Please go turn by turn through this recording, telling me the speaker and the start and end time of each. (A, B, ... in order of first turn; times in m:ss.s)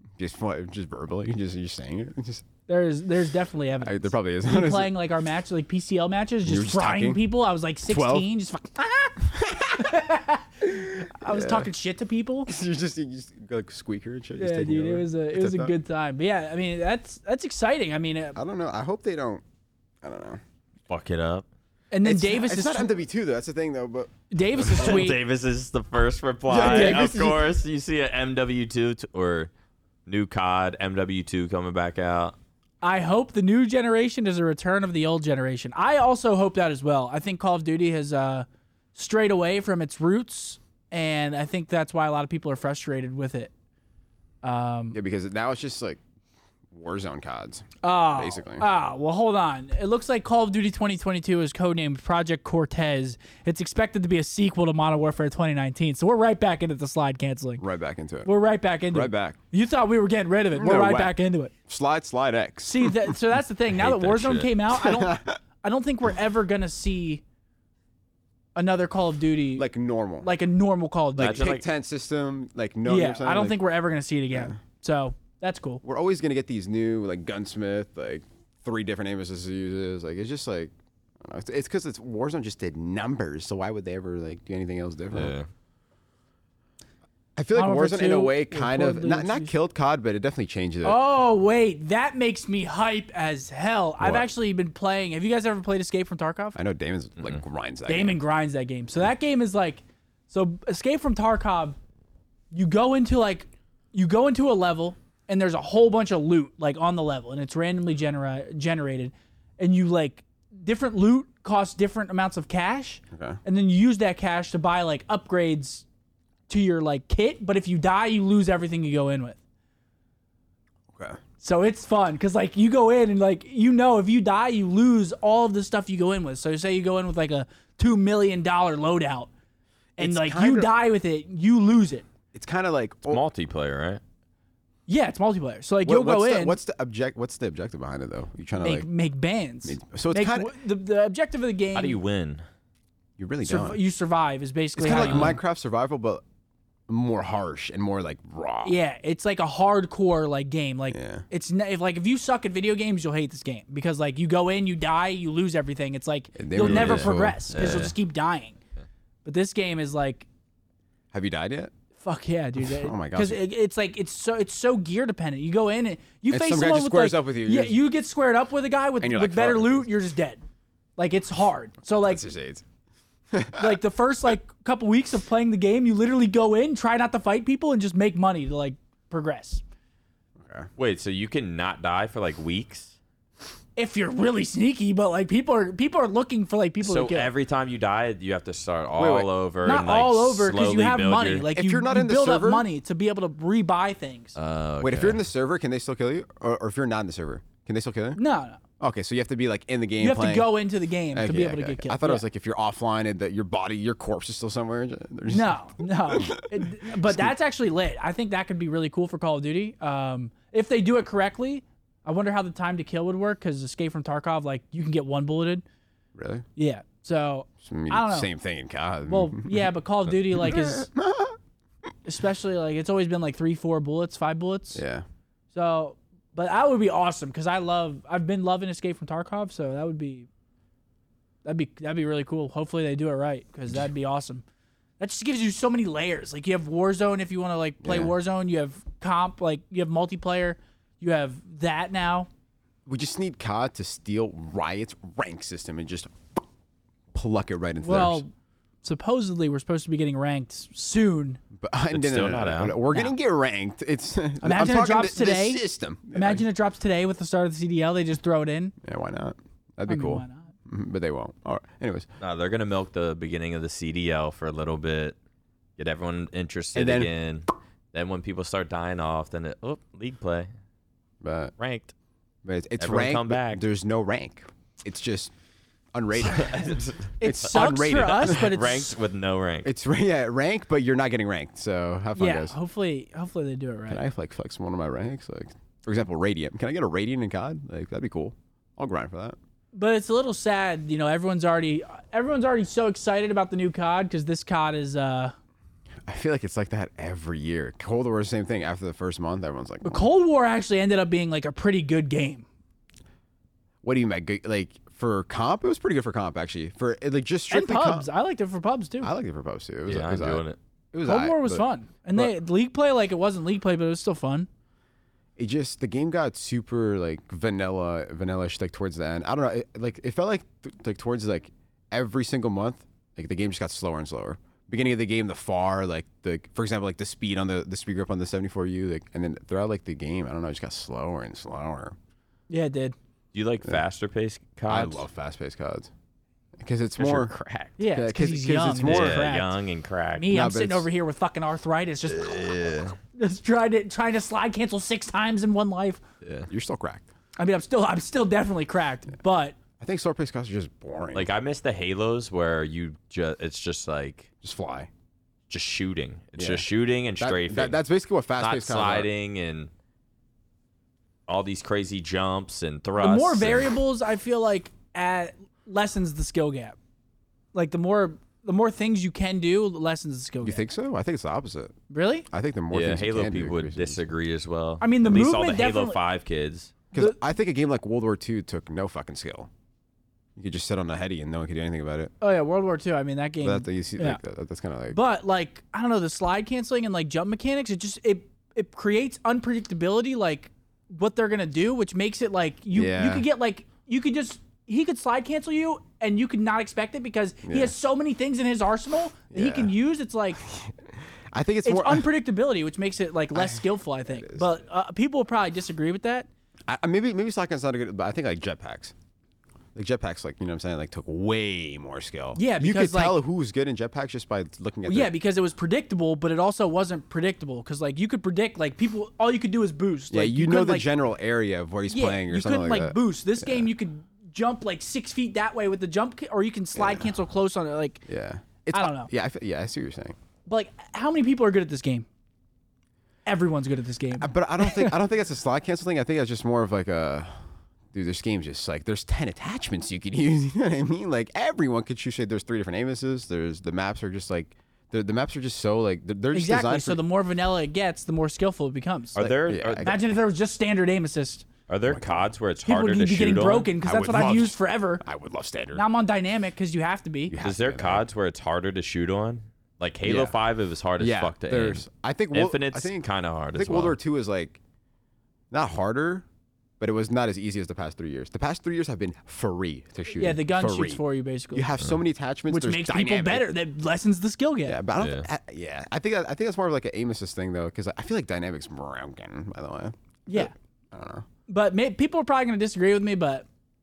0:00.2-0:02.5 A
0:02.7-0:12.5 B
0:03.8-0:04.9 A
0:06.4-0:07.2 A
0:07.9-0:08.3 A
0:09.2-0:10.0 A
0:10.6-0:11.7 A
0:12.5-0:15.7 A
0:14.4-0:18.4 B
0:18.4-0:19.4 A
0:20.0-0:20.4 A
0:20.9-0:21.5 C
0:21.9-0:22.9 B
0:22.0-0:25.0 A
0:24.3-0:25.2 B
0:24.8-0:29.5 C
0:26.5-0:27.4 A
0:26.6-0:27.1 B
0:30.1-0:32.4 C
0:32.8-0:43.5 B
0:44.4-0:45.0 B
0:44.9-0:46.0 A
0:46.7-0:48.7 A
0:47.8-0:57.6 B
0:57.6-0:58.3 A
0:58.3-1:01.5 B
0:58.9-0:59.4 A
1:00.5-1:01.2 A
1:01.7-1:03.2 A
1:02.6-1:07.2 B
1:03.7-1:04.5 C
1:04.8-1:05.4 A
1:08.6-1:09.7 B
1:09.6-1:10.3 A
1:10.2-1:11.6 B
1:11.2-1:11.6 C
1:11.2-1:13.6 A
1:12.9-1:15.8 B
1:14.3-1:14.6 A
1:15.8-1:25.4 A
1:25.1-1:25.5 C
1:27.4-1:31.0 A
1:27.6-1:29.5 B
1:30.8-1:36.6 B
1:34.0-1:34.3 A
1:36.6-1:38.2 A
1:37.9-1:41.8 B
1:42.5-1:55.8 B
1:53.1-1:53.4 A
1:56.5-1:59.4 B
2:00.9-2:01.2 A
2:01.4-2:09.3 B
2:10.0-2:10.7 A
2:10.0-2:12.0 B
2:12.3-2:13.2 A
2:13.1-2:14.0 C
2:14.9-2:16.6 B
2:15.8-2:18.9 A
2:18.6-2:22.0 B
2:19.6-2:20.5 A
2:21.7-2:22.4 C
2:23.2-2:23.8 A
2:23.4-2:25.4 B
2:24.8-2:26.2 A
2:24.9-2:25.4 C
2:26.9-2:28.8 A
2:28.6-2:38.6 B
2:30.9-2:31.2 A
2:36.4-2:37.6 A
2:36.6-2:37.9 C
2:39.2-2:40.3 B
2:41.1-2:41.7 A
2:42.0-2:50.4 B
2:42.6-2:43.4 A
2:46.3-2:47.8 A
2:49.0-2:49.9 A
2:51.0-2:52.2 B
2:52.0-2:52.6 A
2:53.3-2:53.8 A
2:53.6-2:59.6 B
3:00.4-3:00.7 A
3:00.8-3:03.0 C
3:03.8-3:07.3 B
3:06.8-3:11.5 C
3:09.0-3:09.3 A
3:09.6-3:14.4 B
3:11.5-3:12.6 A
3:14.4-3:15.2 C
3:14.8-3:18.2 A
3:18.2-3:18.6 B
3:18.8-3:20.5 A
3:20.0-3:22.2 B
3:21.1-3:27.3 A
3:25.3-3:35.6 B
3:36.2-3:36.5 A
3:36.6-3:38.3 B
3:37.6-3:41.4 A
3:39.1-3:40.9 B
3:42.0-3:44.8 B
3:44.7-3:45.0 A
3:45.5-3:50.3 B
3:51.4-3:54.4 B
3:55.0-4:02.3 B
3:57.8-3:58.1 A
4:02.9-4:06.4 A
4:07.1-4:08.2 A
4:07.8-4:08.3 B
4:08.8-4:11.4 B
4:11.6-4:16.4 A
4:11.9-4:12.8 C
4:14.4-4:18.8 B
4:18.8-4:22.1 A
4:19.9-4:20.5 B
4:22.2-4:25.2 C
4:25.8-4:30.5 C
4:26.8-4:27.1 A
4:31.2-4:31.5 A
4:31.6-4:31.9 C
4:32.4-4:35.3 A
4:32.8-4:33.6 C
4:35.9-4:38.4 A
4:36.2-4:39.7 C
4:37.2-4:39.0 B
4:39.6-4:42.6 A
4:42.2-4:44.0 B
4:43.9-4:49.4 A
4:49.7-4:55.3 B
4:56.1-5:00.1 A
4:59.8-5:02.4 B
5:03.8-5:08.1 A
5:07.5-5:09.1 B
5:09.0-5:12.3 A
5:09.9-5:10.6 C
5:11.0-5:14.5 B
5:15.4-5:32.0 A
5:32.5-5:33.0 B
5:33.3-5:35.0 C
5:34.7-5:35.9 A
5:36.6-5:37.3 A
5:37.0-5:37.8 C
5:37.8-5:39.6 B
5:37.8-5:39.2 A
5:38.9-5:40.3 C
5:40.2-5:42.4 B
5:40.3-5:40.9 A
5:42.1-5:43.0 C
5:43.2-5:46.0 B
5:46.2-5:46.5 C
5:46.5-5:47.1 A
5:47.4-5:49.6 B
5:49.8-5:51.3 A
5:51.1-5:54.3 C
5:54.4-5:54.9 A
5:55.5-5:57.8 C
5:56.4-5:56.7 A
5:57.2-5:59.1 A
5:58.4-5:59.7 C
6:01.3-6:03.8 C
6:03.0-6:06.8 B
6:07.5-6:10.6 B
6:10.4-6:11.7 A
6:11.9-6:12.3 B
6:12.3-6:14.0 A
6:12.7-6:16.7 C
6:14.8-6:16.0 B
6:16.9-6:19.5 A
6:20.4-6:22.1 A
6:22.2-6:24.2 B
6:23.4-6:25.0 A
6:24.9-6:40.4 B
6:32.7-6:33.3 A
6:37.4-6:37.7 A
6:39.3-6:39.7 A
6:40.4-6:42.1 A
6:41.6-6:46.3 B
6:43.4-6:44.5 A
6:46.7-6:48.9 A
6:49.8-6:55.1 A
6:52.4-6:53.2 B
6:54.9-7:00.9 B
7:00.1-7:03.7 A
7:01.9-7:08.0 B
7:06.8-7:07.1 A
7:08.1-7:10.2 A
7:08.7-7:09.1 B
7:10.5-7:12.1 B
7:13.3-7:14.9 B
7:14.2-7:17.4 A
7:17.9-7:27.0 A
7:26.3-7:29.2 B
7:29.2-7:29.9 C
7:29.2-7:30.0 A
7:29.8-7:31.5 B
7:31.7-7:33.7 C
7:31.9-7:32.3 A
7:32.7-7:35.0 B
7:33.8-7:35.8 A
7:35.8-7:37.4 B
7:37.3-7:38.0 A
7:37.4-7:44.0 C
7:40.0-7:40.4 A
7:41.0-7:44.6 A
7:45.5-7:46.2 A
7:46.8-7:51.0 A
7:50.2-7:51.6 B
7:51.5-7:53.5 A
7:52.5-7:54.8 B
7:54.7-8:01.2 A
7:55.0-7:55.3 C
8:00.3-8:00.5 B
8:01.5-8:03.5 B